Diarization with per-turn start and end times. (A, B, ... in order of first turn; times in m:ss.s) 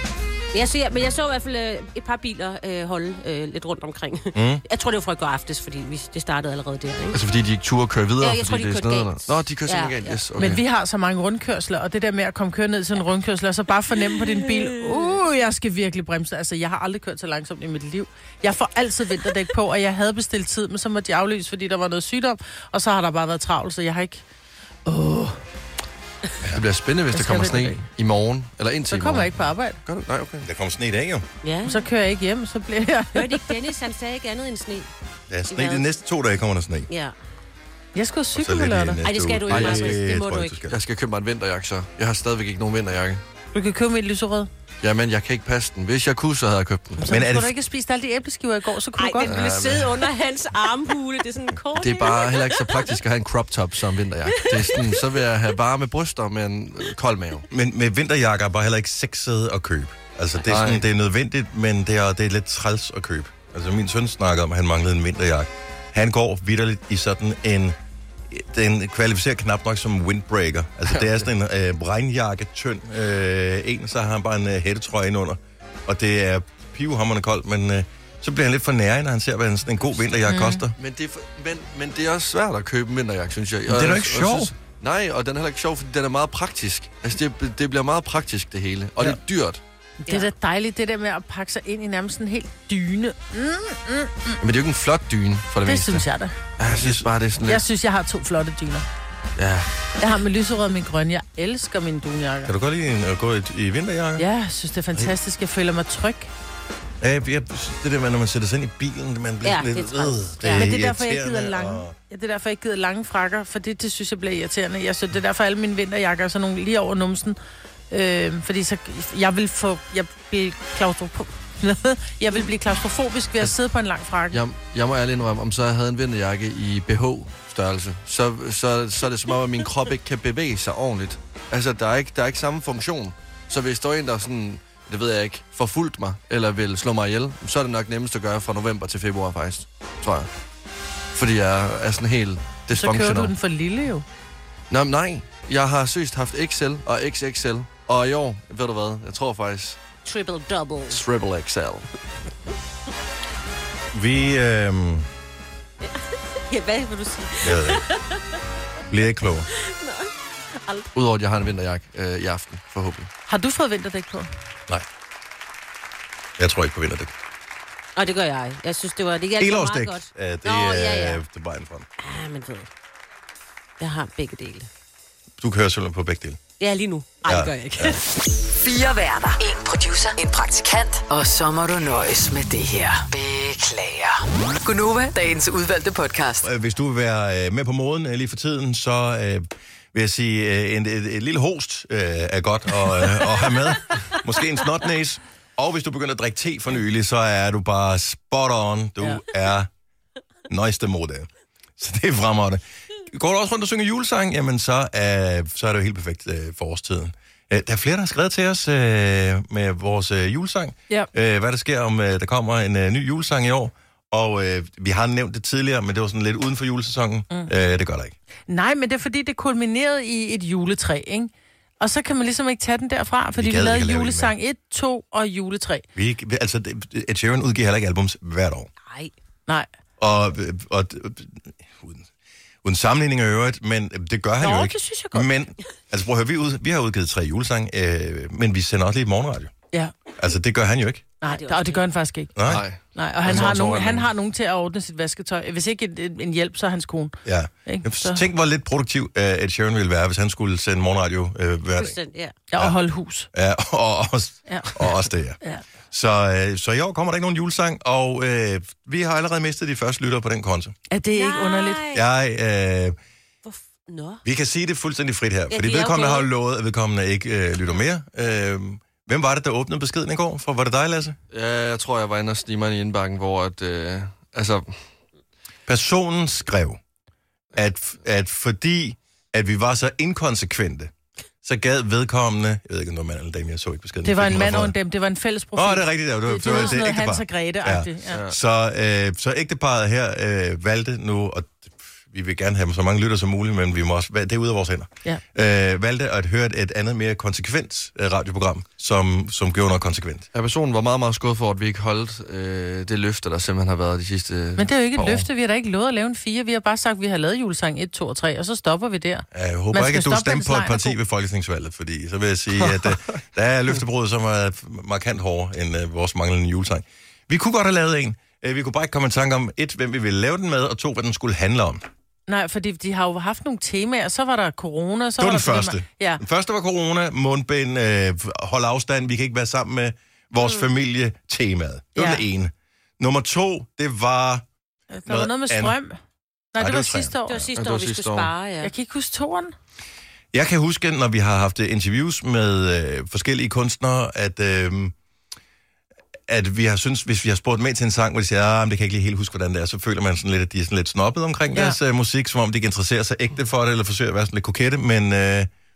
0:00.5-0:07.2 A
0:04.3-0:04.6 B
0:07.1-0:10.6 C
0:08.2-0:10.2 A
0:10.4-0:24.2 D
0:14.3-0:15.2 A
0:24.9-0:25.4 D
0:26.5-0:29.3 C
0:27.1-0:27.8 D
0:28.9-0:29.8 D
0:29.9-0:30.5 C
0:30.4-0:31.3 B
0:31.4-0:31.9 A
0:31.6-0:33.5 D
0:33.2-0:34.9 A
0:35.3-0:36.9 B
0:35.5-0:36.0 A
0:36.9-0:37.2 A
0:38.0-0:39.0 D
0:38.4-0:40.8 B
0:39.0-0:40.6 A
0:39.5-0:40.0 C
0:40.7-0:43.2 C
0:43.5-0:44.5 D
0:44.8-0:47.0 C
0:47.0-0:49.4 D
0:47.1-0:47.5 B
0:49.0-0:53.0 A
0:49.2-0:50.0 C
0:51.8-0:57.4 C
0:54.4-0:55.0 A
0:57.5-1:07.8 B
1:00.5-1:00.8 C
1:08.3-1:20.7 B
1:10.9-1:11.3 C
1:20.3-1:20.6 D
1:20.8-1:29.6 C
1:23.7-1:24.5 B
1:30.0-1:34.4 D
1:34.4-1:36.1 C
1:35.7-1:36.4 D
1:36.6-1:37.6 C
1:36.7-1:37.1 B
1:37.4-1:38.8 D
1:39.4-1:39.7 C
1:40.0-1:42.5 D
1:42.5-1:44.3 B
1:44.2-1:46.3 D
1:47.0-1:51.9 B
1:49.4-1:50.7 A
1:50.4-1:57.4 D
1:57.9-2:04.4 D
2:04.3-2:20.3 C
2:21.1-2:23.3 C
2:22.7-2:24.0 D
2:24.7-2:29.8 C
2:30.0-2:31.0 A
2:30.9-2:31.9 C
2:33.9-2:35.1 B
2:35.8-2:38.2 A
2:37.4-2:37.8 B
2:38.9-2:39.5 B
2:39.6-2:40.9 A
2:41.0-2:43.1 C
2:43.3-2:44.3 D
2:46.4-2:47.1 B
2:48.0-2:51.2 A
2:49.4-2:51.9 B
2:52.0-2:52.7 A
2:53.8-2:54.7 A
2:55.4-2:56.4 B
2:56.6-2:58.0 A
2:57.2-2:58.0 B
2:58.6-3:06.5 E
3:06.4-3:19.7 B
3:20.5-3:38.1 B
3:38.5-3:45.9 D
3:43.4-3:44.3 B
3:46.0-3:48.7 B
3:50.0-3:52.1 B
3:52.6-3:59.5 B
3:54.4-3:55.3 D
4:00.2-4:01.0 B
4:01.2-4:08.2 D
4:01.2-4:01.9 A
4:02.4-4:02.7 B
4:02.4-4:04.1 C
4:07.2-4:12.0 B
4:11.8-4:12.4 A
4:12.5-4:13.3 D
4:13.3-4:15.4 B
4:15.9-4:20.8 B
4:20.9-4:21.8 D
4:21.2-4:22.0 A
4:21.9-4:23.0 B
4:23.4-4:24.2 A
4:24.2-4:31.2 B
4:25.5-4:26.3 A
4:31.3-4:34.8 C
4:35.7-4:36.8 B
4:37.5-4:40.9 B
4:41.4-4:44.8 B
4:44.0-4:48.2 D
4:45.6-5:00.3 B
4:48.1-4:48.4 C
5:00.3-5:05.3 C
5:04.6-5:11.0 D
5:09.3-5:21.8 B
5:22.3-5:26.2 D
5:25.2-5:34.5 B
5:32.0-5:32.2 D
5:34.9-5:36.0 D
5:35.1-5:35.8 B
5:36.5-5:37.5 D
5:36.6-5:37.2 B
5:37.3-5:38.7 A
5:37.6-5:38.3 C
5:38.6-5:39.5 D
5:40.3-5:44.9 B
5:46.3-5:55.5 B